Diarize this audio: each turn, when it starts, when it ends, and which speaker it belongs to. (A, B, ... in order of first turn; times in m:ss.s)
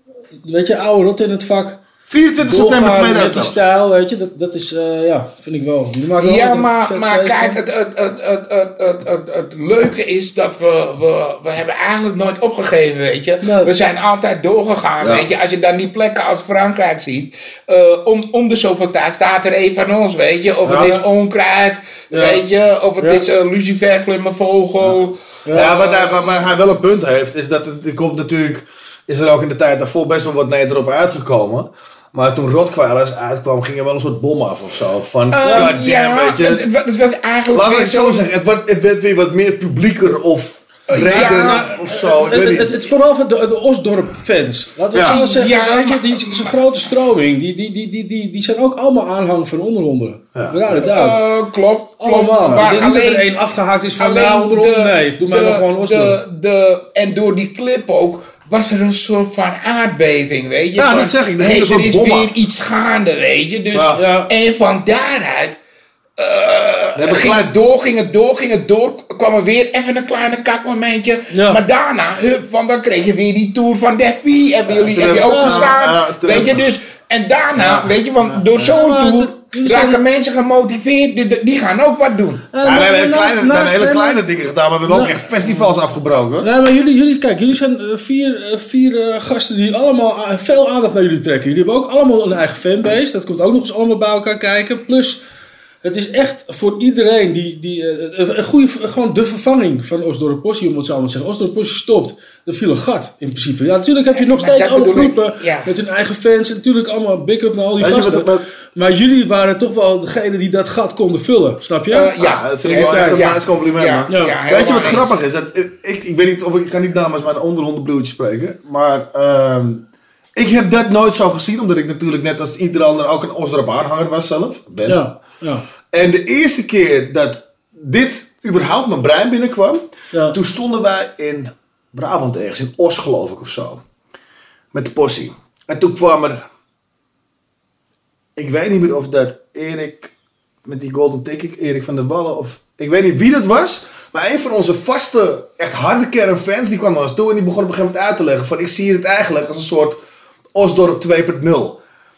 0:00.4-0:01.8 A
0:02.1-0:03.6 B
0:02.4-0:07.6 A
0:06.2-0:26.0 C
0:13.4-0:13.7 A
0:15.0-0:15.3 B
0:20.6-0:21.0 B
0:22.1-0:22.4 A
0:23.0-0:23.3 A
0:25.5-0:25.7 A
0:25.5-0:36.6 B
0:35.3-0:38.2 C
0:35.4-0:35.8 A
0:37.5-0:42.7 B
0:40.9-0:41.7 C
0:41.0-0:51.2 A
0:45.0-0:46.6 C
0:50.4-0:50.6 B
0:50.7-0:53.3 C
0:52.0-0:56.2 A
0:54.0-1:05.6 C
1:00.8-1:02.3 B
1:03.7-1:04.0 B
1:03.9-1:04.3 A
1:06.2-1:22.4 C
1:07.0-1:07.5 B
1:11.3-1:11.6 A
1:14.7-1:16.6 B
1:15.1-1:15.7 A
1:17.6-1:17.9 B
1:18.3-1:20.0 A
1:22.5-1:24.2 A
1:22.6-1:26.5 B
1:24.9-1:25.3 A
1:26.4-1:35.2 A
1:35.8-1:52.2 A
1:44.2-1:45.7 C
1:47.8-1:48.4 B
1:51.9-1:55.2 C
1:52.2-1:59.8 B
1:54.1-1:54.4 A
2:00.4-2:05.1 B
2:04.9-2:05.6 A
2:05.9-2:13.8 B
2:10.1-2:10.4 A
2:14.7-2:16.4 B
2:18.4-2:20.1 B
2:20.6-2:30.0 B
2:30.5-2:31.8 B